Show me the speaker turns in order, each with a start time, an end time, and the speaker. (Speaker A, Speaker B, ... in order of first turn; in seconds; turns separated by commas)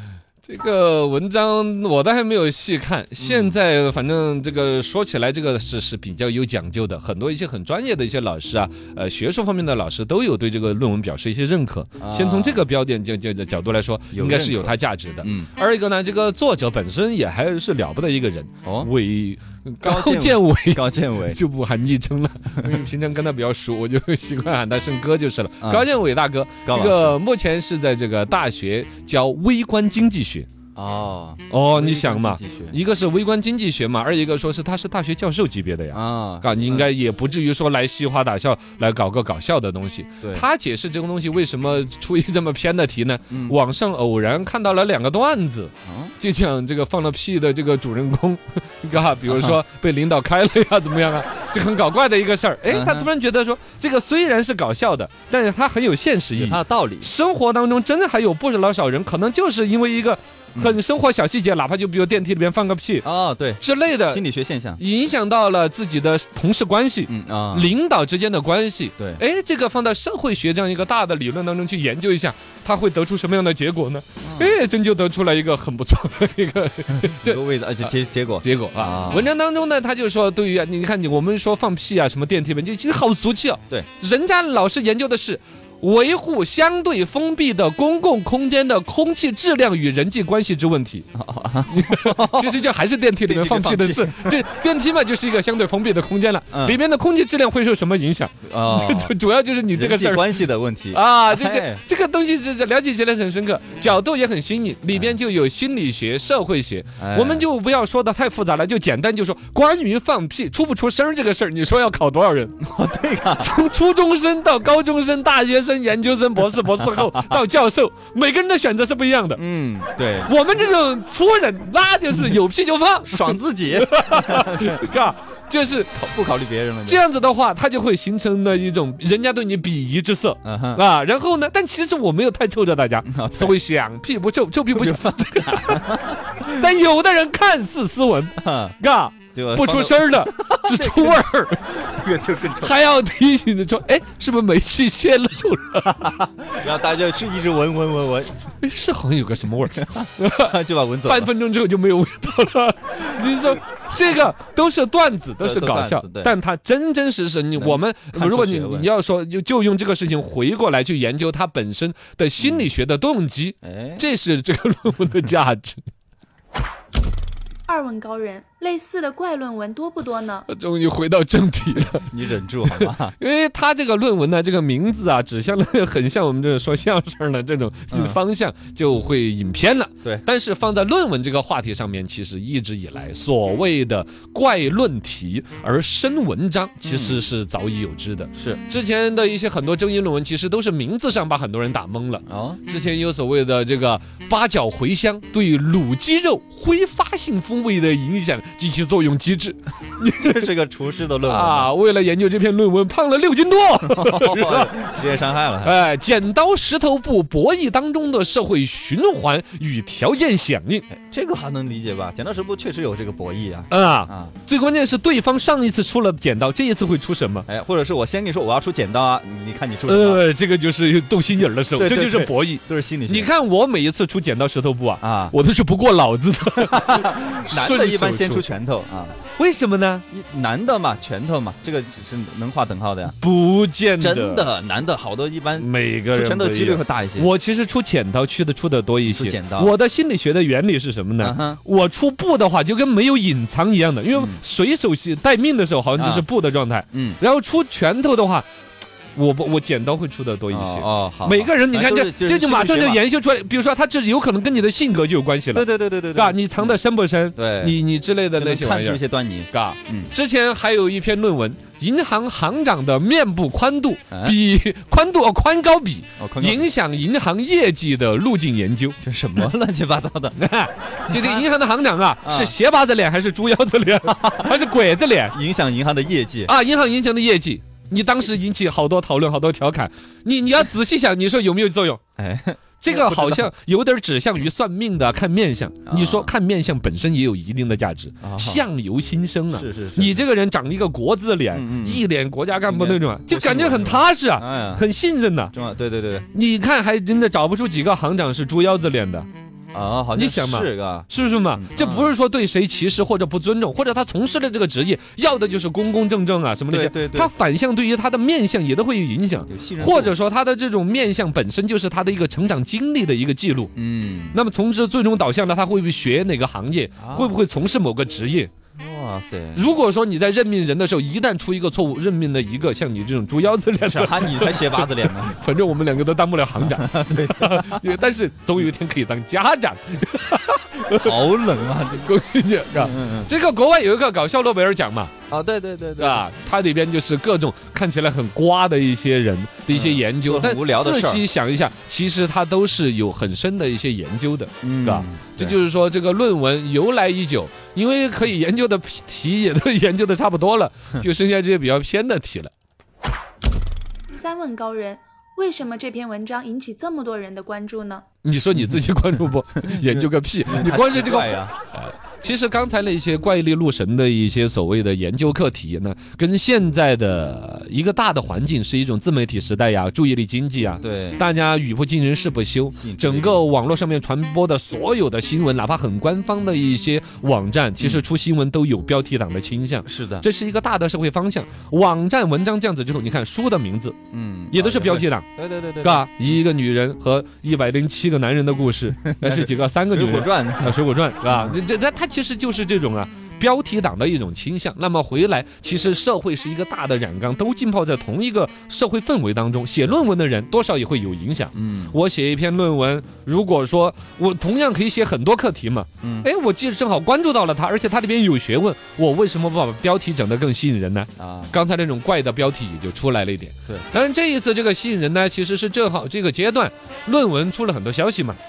Speaker A: 0.4-30.5, Speaker B: 3.2-3.6, Speaker B: 12.0-12.6, Speaker B: 14.1-15.5, Speaker B: 18.6-18.9, Speaker B: 19.8-21.4, Speaker B: 25.6-25.9, Speaker B: 26.6-27.2, Speaker B: 30.7-32.8, Speaker A: 31.5-63.0, Speaker B: 35.9-36.9, Speaker B: 43.3-43.6, Speaker B: 45.9-46.1, Speaker B: 49.3-49.6, Speaker B: 52.7-53.1, Speaker B: 56.4-57.1, Speaker B: 63.0-64.8, Speaker A: 63.6-64.2, Speaker A: 64.8-77.9, Speaker B: 67.1-67.7, Speaker B: 74.2-74.5, Speaker B: 76.9-79.3, Speaker A: 78.4-91.1, Speaker B: 91.1-92.6, Speaker A: 91.7-100.4, Speaker B: 93.2-94.4, Speaker B: 96.5-96.8, Speaker B: 98.5-99.1, Speaker B: 99.7-101.8, Speaker A: 100.9-112.5, Speaker B: 107.0-107.5, Speaker B: 112.6-113.5, Speaker A: 113.4-119.4, Speaker B: 119.3-120.3, Speaker A: 120.2-125.9, Speaker B: 123.1-124.8, Speaker B: 125.9-127.0, Speaker A: 126.8-135.8, Speaker B: 130.4-130.8, Speaker B: 133.0-133.6, Speaker B: 134.8-136.2, Speaker A: 136.4-141.7, Speaker B: 138.4-138.8, Speaker B: 139.3-142.8, Speaker A: 142.6-146.2, Speaker B: 145.9-148.4, Speaker A: 148.6-165.8, Speaker B: 149.8-151.3, Speaker B: 155.4-156.3, Speaker B: 157.6-158.9, Speaker B: 162.4-162.7, Speaker B: 163.6-164.0, Speaker C: 167.7-170.5, Speaker A: 170.5-172.1, Speaker B: 171.9-173.2, Speaker A: 172.6-200.5, Speaker B: 177.9-178.2, Speaker B: 186.8-187.2, Speaker B: 188.3-188.6, Speaker B: 192.3-192.6, Speaker B: 200.0-201.7, Speaker A: 201.2-204.7, Speaker B: 203.9-205.8, Speaker A: 205.6-210.8, Speaker B: 210.9-214.3, Speaker A: 213.7-217.5, Speaker B: 217.5-220.2, Speaker A: 219.8-228.4, Speaker B: 221.8-223.3, Speaker B: 225.0-225.3, Speaker B: 226.6-229.2, Speaker A: 229.3-230.1, Speaker B: 230.1-233.2, Speaker A: 233.2-234.4, Speaker B: 234.0-237.3, Speaker A: 235.6-248.4, Speaker B: 239.1-239.7, Speaker B: 241.2-241.6, Speaker B: 244.1-244.4, Speaker B: 246.0-246.2, Speaker B: 246.9-247.2, Speaker A: 249.1-269.0, Speaker B: 250.5-253.0, Speaker B: 255.5-256.8, Speaker B: 257.4-257.8, Speaker B: 258.4-260.1, Speaker B: 264.1-264.4, Speaker B: 266.2-266.7, Speaker B: 269.0-270.4, Speaker A: 270.4-275.4, Speaker B: 271.1-271.5, Speaker B: 272.2-272.5, Speaker B: 274.1-274.5, Speaker B: 275.3-276.5, Speaker A: 276.4-282.0, Speaker B: 282.2-283.5, Speaker A: 282.8-295.5, Speaker B: 285.9-286.3, Speaker B: 288.2-288.6, Speaker B: 289.5-290.2, Speaker B: 291.5-292.0, Speaker B: 292.7-294.8, Speaker B: 295.5-296.3, Speaker A: 296.3-299.3, Speaker B: 299.7-302.1, Speaker A: 300.1-313.7, Speaker B: 306.7-307.3, Speaker B: 309.5-310.2, Speaker B: 313.8-314.4, Speaker A: 314.3-318.5, Speaker B: 317.0-317.4, Speaker B: 318.8-319.7, Speaker A: 319.5-331.2, Speaker B: 323.7-325.4, Speaker B: 326.6-327.9, Speaker B: 331.0-332.1, Speaker A: 332.0-335.1, Speaker B: 332.7-333.3, Speaker B: 335.3-336.2, Speaker A: 336.0-352.5, Speaker B: 339.7-341.2, Speaker B: 344.6-345.6, Speaker C: 354.1-358.0, Speaker A: 358.2-384.0, Speaker B: 359.7-361.5, Speaker B: 370.8-371.2, Speaker B: 372.8-373.4, Speaker B: 379.8-380.3, Speaker B: 384.1-386.1, Speaker A: 384.5-385.2, Speaker A: 385.8-418.4, Speaker B: 389.1-391.6, Speaker B: 401.5-401.9, Speaker B: 406.0-406.3, Speaker B: 411.2-411.6